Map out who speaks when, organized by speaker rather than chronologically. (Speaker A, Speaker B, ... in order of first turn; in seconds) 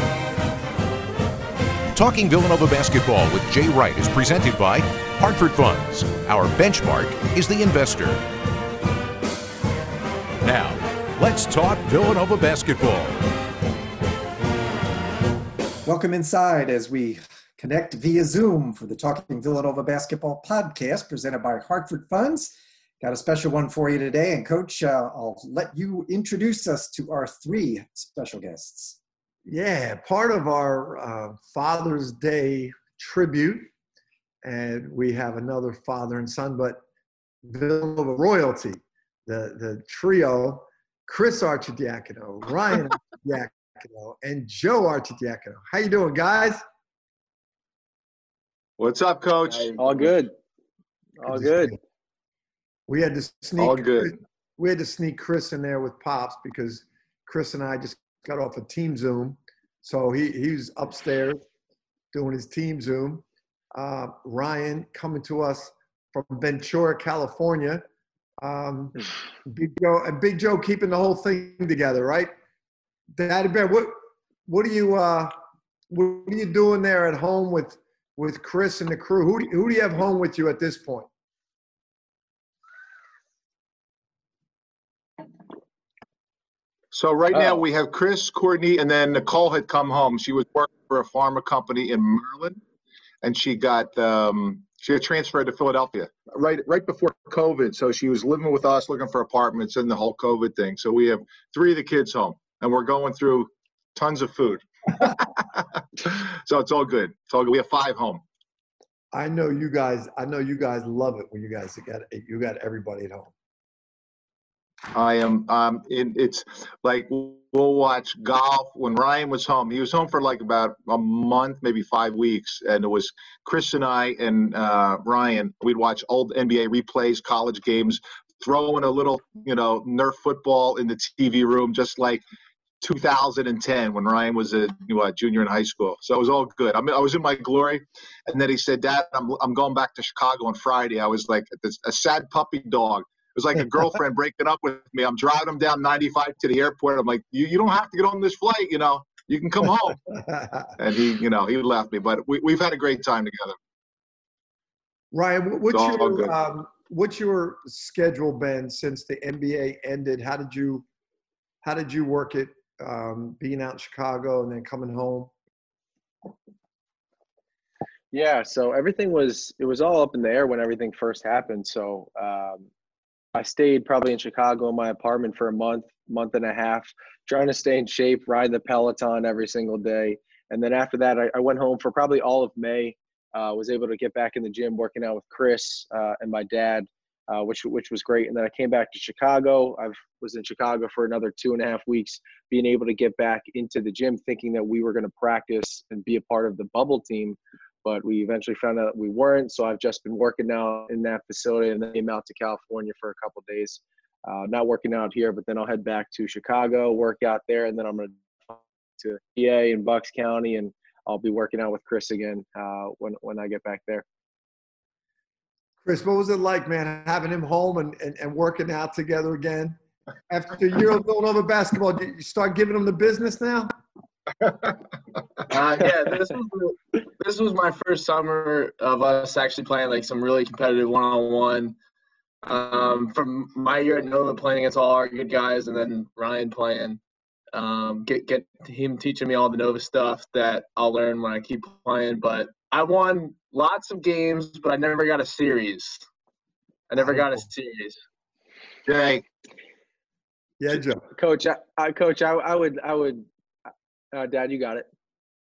Speaker A: 1.9-8.2, 10.4-13.2
Speaker B: 15.8-29.0
Speaker C: 29.4-33.7, 34.4-36.8, 37.4-46.6, 51.2-51.8, 52.9-61.4, 62.1-67.8, 68.4-72.3, 73.1-75.3, 75.9-81.1, 109.1-113.3, 150.1-150.7, 155.1-160.8, 161.6-165.3, 215.8-219.8, 220.3-223.7, 250.6-251.1
Speaker D: 48.8-50.0, 53.6-54.1, 86.9-92.6, 93.2-108.2, 114.9-132.2, 132.8-150.0, 150.8-153.6, 155.7-156.3, 248.8-249.2
Speaker E: 49.8-50.3, 51.2-51.8, 168.1-172.7, 173.3-214.0, 251.1-253.2, 254.1-254.9
Speaker F: 225.5-231.8, 232.4-237.0, 237.5-246.1, 246.9-248.0